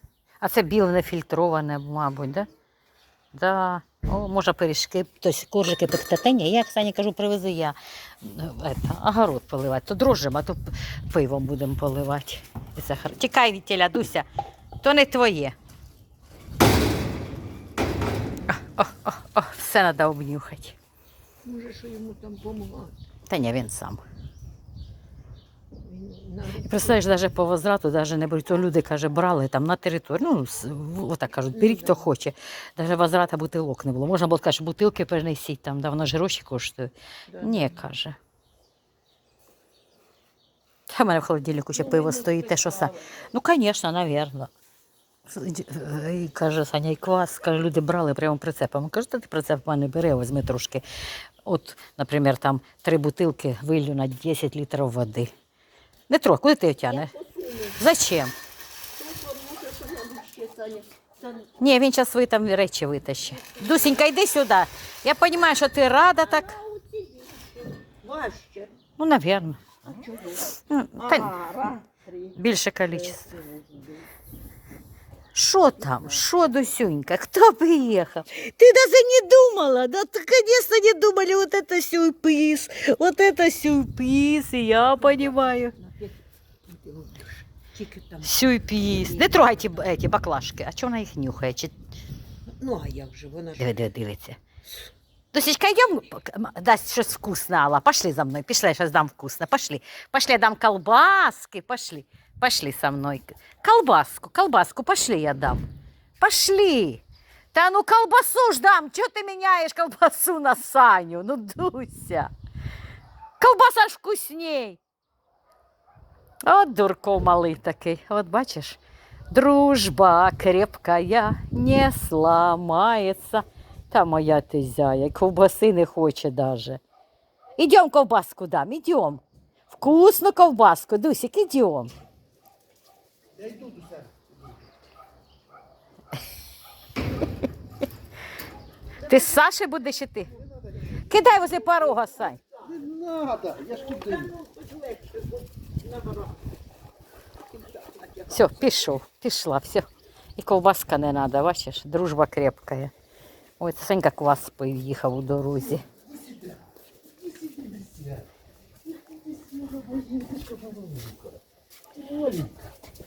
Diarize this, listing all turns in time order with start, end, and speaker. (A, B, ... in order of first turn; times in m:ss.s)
0:00.4-0:02.5 A
0:03.3-0:14.3 A
0:14.8-0:15.6 A
0:18.5-0:20.8 A
0:21.4-0:22.9 B
0:23.3-0:24.0 A
0:25.8-0:27.0 B
0:26.5-0:38.2 A
0:31.5-0:32.0 B
0:37.3-0:37.7 B
0:40.9-0:44.5 A
0:41.8-0:43.0 B
0:45.3-0:50.8 A
0:51.4-0:55.3 A
0:56.1-0:57.1 A
0:56.9-0:57.8 B
0:57.7-0:58.3 A
0:58.9-1:01.5 B
1:01.6-1:06.6 A
1:06.2-1:08.7 B
1:09.0-1:09.6 A
1:09.8-1:12.4 B
1:10.5-1:11.4 A
1:12.3-1:13.3 A
1:12.9-1:14.0 B
1:15.3-1:25.7 A
1:25.0-1:28.3 B
1:28.2-1:31.7 A
1:28.9-1:29.5 B
1:32.5-1:33.7 B
1:33.6-1:34.4 A
1:35.3-1:45.6 A
1:46.2-1:47.0 A
1:47.5-1:52.3 A
1:53.4-1:54.8 A
1:56.4-1:58.8 A
1:59.3-2:06.8 A
2:07.6-2:11.9 A
2:13.3-2:14.3 C
2:19.0-2:20.4 A
2:20.9-2:22.6 B
2:20.9-2:22.4 A
2:22.6-2:24.4 C
2:23.7-2:26.4 B
2:27.5-2:28.3 B
2:28.3-2:32.9 A
2:33.6-2:35.8 A
2:35.9-2:36.6 C
2:37.2-2:38.2 C
2:39.0-2:41.4 C
2:41.9-2:42.6 C